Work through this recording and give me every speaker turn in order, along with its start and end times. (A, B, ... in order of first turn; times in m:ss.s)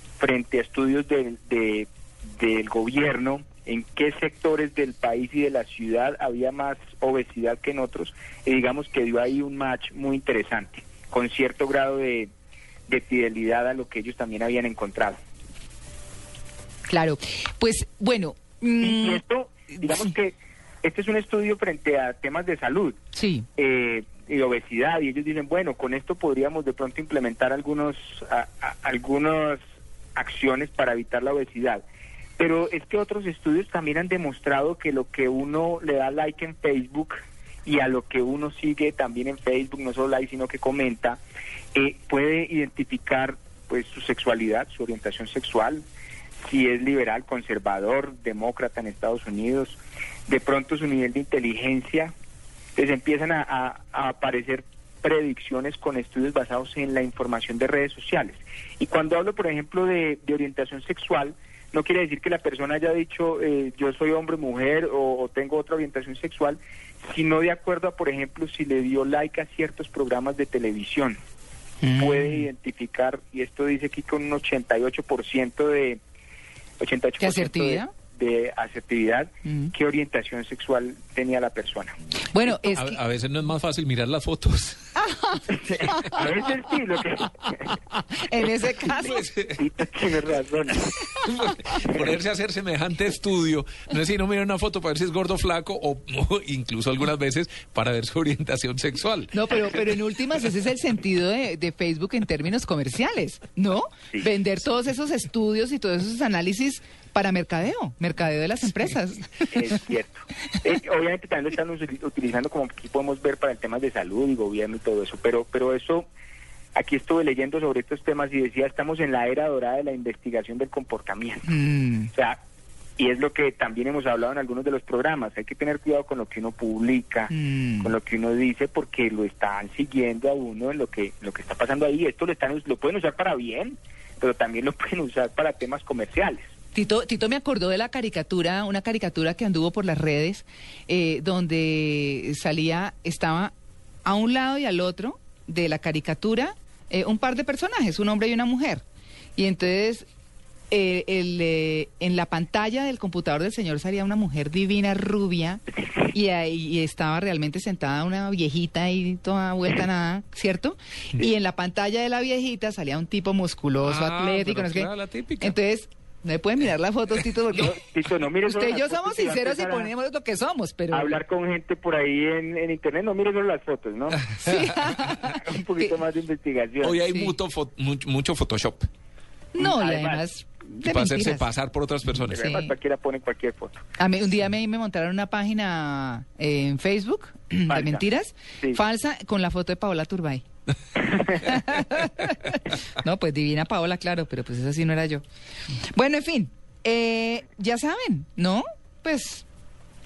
0:00.2-0:12.3 A
0:12.9-0:15.2 A
0:16.9-0:19.2 B
0:18.8-0:23.0 A
0:19.9-0:20.1 B
0:23.1-0:23.5 B
0:23.6-0:29.6 A
0:30.2-0:31.8 A
0:32.4-0:41.2 A
0:41.7-0:45.8 A
0:46.4-0:52.1 A
0:52.8-1:11.2 A
1:11.8-1:12.5 B
1:12.0-1:16.0 A
1:16.8-1:21.9 A
1:17.2-1:17.9 B
1:19.4-1:19.7 B
1:22.3-1:23.0 B
1:22.5-1:25.0 C
1:25.0-1:25.4 B
1:25.5-1:27.7 A
1:25.8-1:26.2 C
1:28.2-1:29.2 B
1:28.9-1:29.6 C
1:29.6-1:30.9 A
1:30.9-1:39.3 C
1:39.3-1:49.5 B
1:49.5-1:56.1 A
1:56.8-2:01.5 A
2:01.4-2:02.1 B
2:02.1-2:02.4 A
2:03.0-2:16.5 A
2:07.3-2:07.9 B
2:16.7-2:23.5 B
2:24.0-2:28.8 B
2:29.4-2:30.0 B
2:30.7-2:47.8 B
2:43.8-2:45.6 C
2:47.6-2:49.9 A
2:48.4-2:51.2 B
2:50.9-2:54.3 A
2:54.4-2:55.3 B
2:54.4-2:54.8 C
2:54.9-2:57.0 A
2:56.8-2:58.9 C
2:57.1-2:57.3 B
2:59.5-3:01.5 B
2:59.6-3:00.2 A
3:00.7-3:02.4 C
3:02.2-3:02.7 B
3:02.3-3:03.8 A
3:04.0-3:10.4 B
3:07.7-3:08.0 A
3:11.3-3:15.2 B
3:15.9-3:19.4 B